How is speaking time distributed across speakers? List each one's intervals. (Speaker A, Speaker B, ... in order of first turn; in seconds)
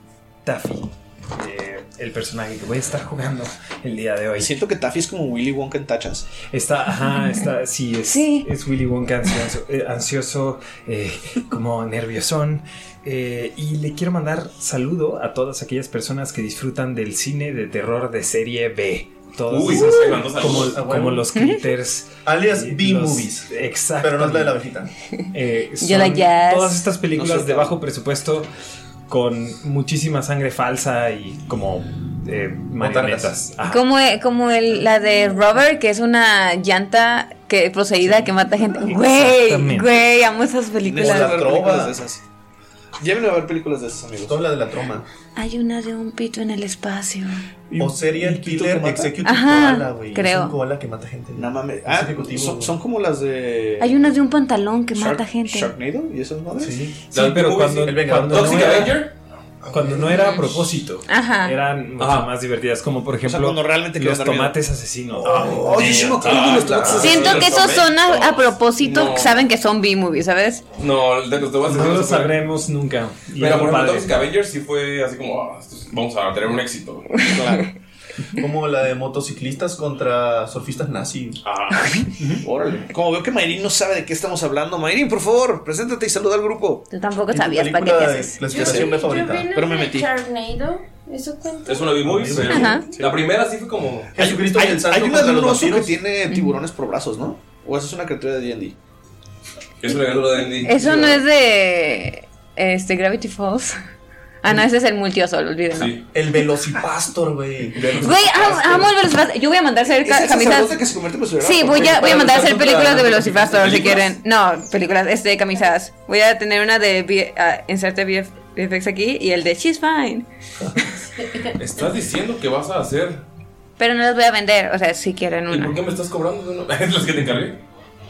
Speaker A: 0.5-4.5, 6.4-24.6, 25.3-28.5, 29.1-33.8, 38.9-39.9, 57.0-59.0, 59.7-65.6, 71.7-74.1
Speaker B: 4.4-6.3, 27.1-27.7, 40.8-42.2, 43.0-44.4, 47.7-49.2, 51.4-54.0, 54.9-56.8, 63.2-64.6, 65.2-67.5, 77.3-77.7, 82.4-86.9, 88.6-88.8, 89.5-90.1, 94.2-98.8, 110.0-114.0
Speaker C: 8.1-8.5, 25.8-26.8, 33.7-41.5, 45.4-47.4, 49.2-50.5, 53.8-55.7, 60.1-60.4, 61.1-61.6, 67.0-70.7, 86.9-88.6, 92.5-92.9, 96.3-96.6, 100.6-103.8, 104.4-106.0, 108.0-110.8, 111.4-121.0, 123.8-125.8
Speaker D: 19.5-20.8, 57.1-59.1, 62.0-62.3, 65.3-69.4, 70.8-72.4, 73.4-77.3, 81.4-82.4, 91.7-94.2, 99.8-101.2, 105.7-106.0, 107.8-108.8, 113.6-114.0, 121.5-123.2, 125.5-127.6
Speaker E: 19.7-21.3, 22.2-24.9, 32.8-33.4, 41.0-42.0, 44.3-45.1, 47.8-52.8, 56.6-56.9, 57.8-59.0, 59.6-60.3, 65.2-67.2, 78.4-81.4, 87.3-89.5, 92.1-93.1, 94.2-96.0, 106.1-108.8
Speaker F: 88.4-92.1